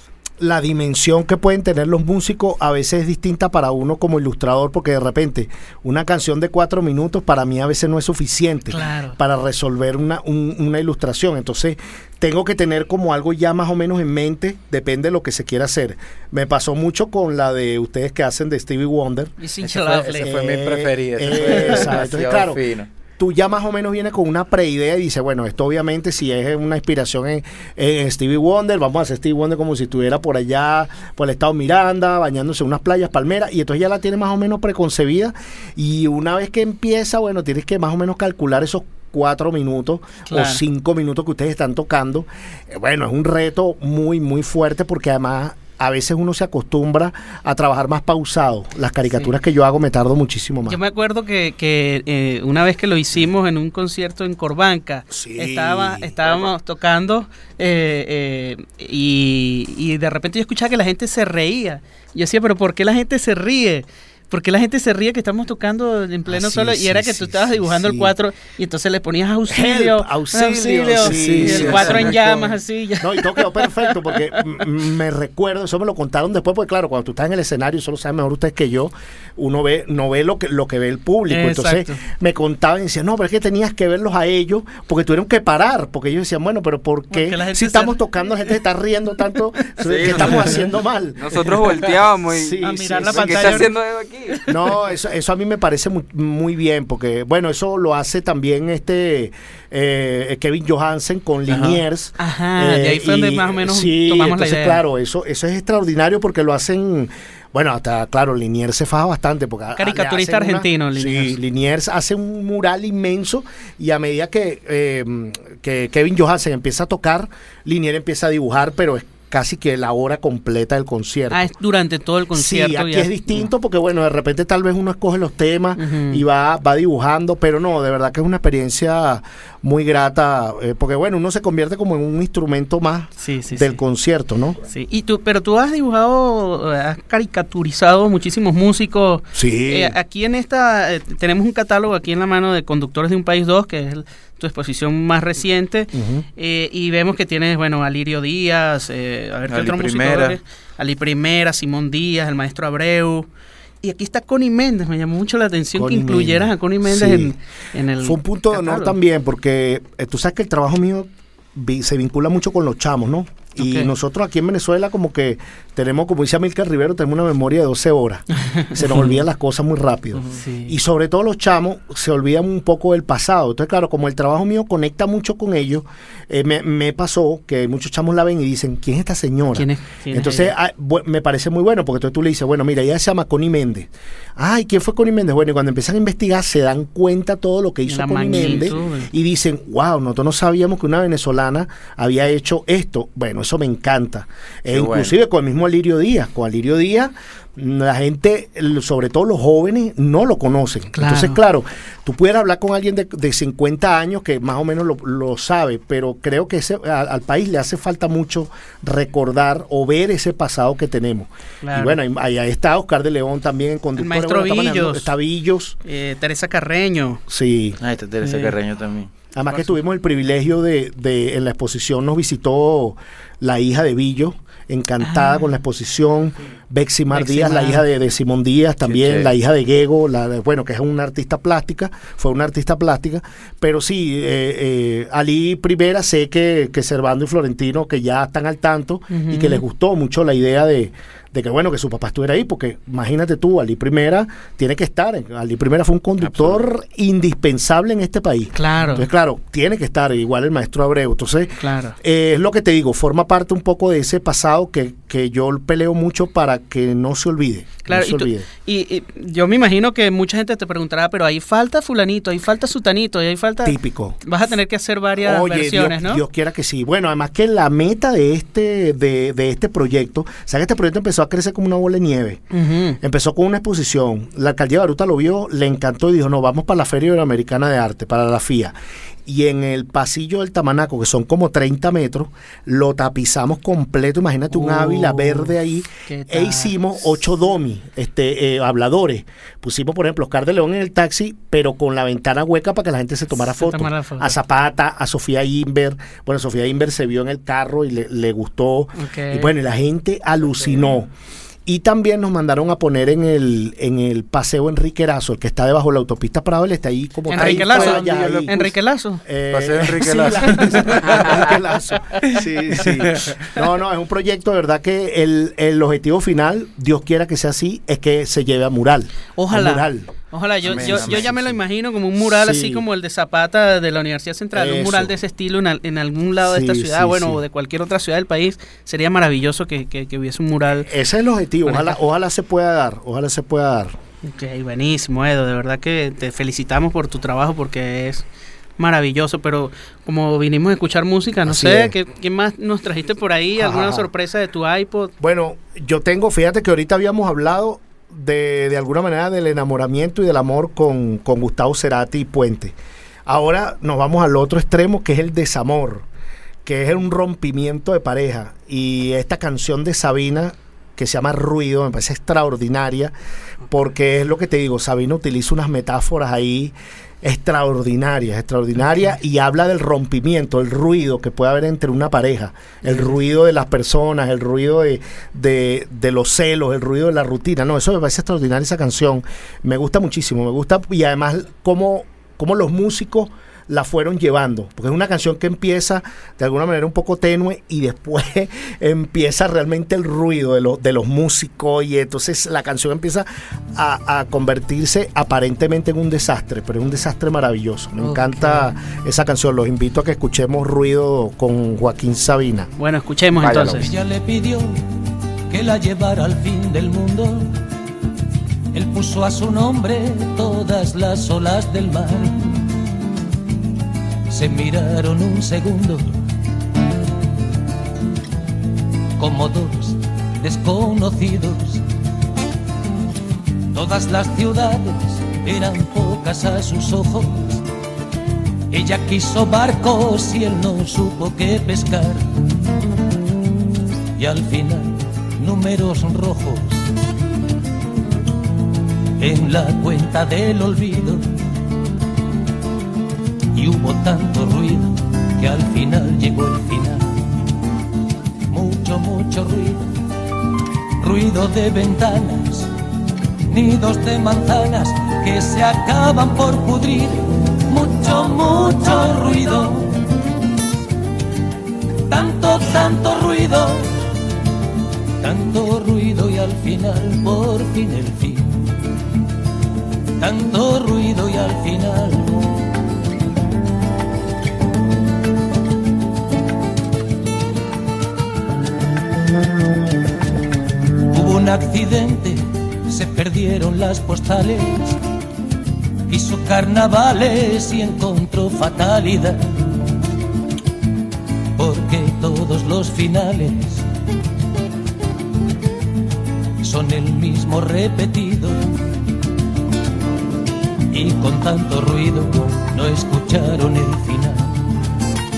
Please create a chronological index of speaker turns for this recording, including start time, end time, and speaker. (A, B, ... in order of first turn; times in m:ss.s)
0:00.4-0:19.3 A
0:08.7-0:09.2 B
0:19.4-0:20.3 B
0:19.6-0:22.9 C
0:20.2-0:50.8 A
0:21.5-0:21.8 B
0:40.3-0:40.6 B
0:50.6-1:14.4 B
0:55.1-0:56.3 A
1:06.3-1:08.1 A
1:09.5-1:31.5 A
1:11.0-1:12.1 C
1:21.3-1:22.0 B
1:27.1-1:28.0 B
1:29.8-1:34.4 D
1:32.3-1:33.7 A
1:32.6-1:33.7 B
1:34.5-2:01.5 A
1:41.5-1:41.8 C
1:42.2-1:44.8 B
1:49.7-1:51.4 B
2:01.3-2:03.4 B
2:02.3-2:14.6 A
2:05.8-2:06.2 B
2:13.2-2:13.8 B
2:14.7-2:33.3 B
2:19.3-2:20.0 A
2:25.9-2:26.3 A
2:29.5-2:30.4 C
2:33.8-2:39.0 B
2:35.8-2:37.4 A
2:38.0-3:35.8 A
2:43.6-2:43.9 B
2:48.4-2:49.2 B
2:50.2-2:50.8 B
2:59.5-3:00.5 B
3:07.9-3:09.1 B
3:14.7-3:15.2 C
3:21.0-3:21.4 B
3:31.6-3:32.0 B
3:34.0-3:35.1 B
3:35.8-3:37.2 B
3:37.3-3:37.8 A
3:37.8-3:39.1 C
3:38.2-3:38.5 B
3:39.3-4:18.5 A
3:39.5-3:39.7 B
3:45.0-3:45.5 B
3:47.1-3:47.8 B
3:48.8-3:49.3 C
3:59.1-3:59.6 B
4:06.2-4:06.6 C
4:08.6-4:09.1 B
4:11.6-4:12.0 B
4:17.9-4:26.2 B
4:23.6-4:24.2 A
4:25.2-4:32.4 A
4:32.5-4:33.0 B
4:33.0-4:38.8 A
4:39.3-5:01.1 A
4:44.5-4:45.6 B
4:46.1-4:46.8 B
4:53.3-4:54.4 B
4:59.0-4:59.5 B
5:01.7-5:20.1 A
5:07.3-5:09.2 B
5:07.3-5:08.6 C
5:09.5-5:11.6 C
5:12.3-5:13.5 C
5:19.4-5:30.9 B
5:20.6-5:21.4 C
5:20.7-5:21.6 A
5:22.2-5:22.8 A
5:24.5-5:25.2 A
5:26.4-5:27.4 A
5:30.7-5:33.9 A
5:31.6-5:32.0 B
5:34.3-5:38.2 B
5:38.8-5:45.1 B
5:41.5-5:42.0 A
5:43.6-5:44.1 A
5:45.2-5:56.1 A
5:56.6-6:03.1 A
6:03.7-6:42.7 A
6:12.8-6:13.2 B
6:38.0-6:38.6 B
6:42.8-6:43.9 B
6:43.4-6:44.0 D
6:43.8-6:44.8 E
6:45.5-6:47.5 E
6:48.7-6:52.7 E
6:54.3-6:56.2 E
6:59.2-7:01.8 E
7:03.7-7:07.6 E
7:08.7-7:12.3 E
7:14.2-7:16.9 E
7:19.2-7:21.4 E
7:23.5-7:27.2 E
7:28.5-7:29.9 E
7:31.0-7:32.7 E
7:33.5-7:40.0 E
7:42.1-7:44.0 E
7:45.2-7:48.8 E
7:50.2-7:52.5 E
8:01.1-8:05.0 E
8:06.1-8:09.4 E
8:11.6-8:13.9 E
8:16.6-8:18.6 E
8:20.9-8:24.6 E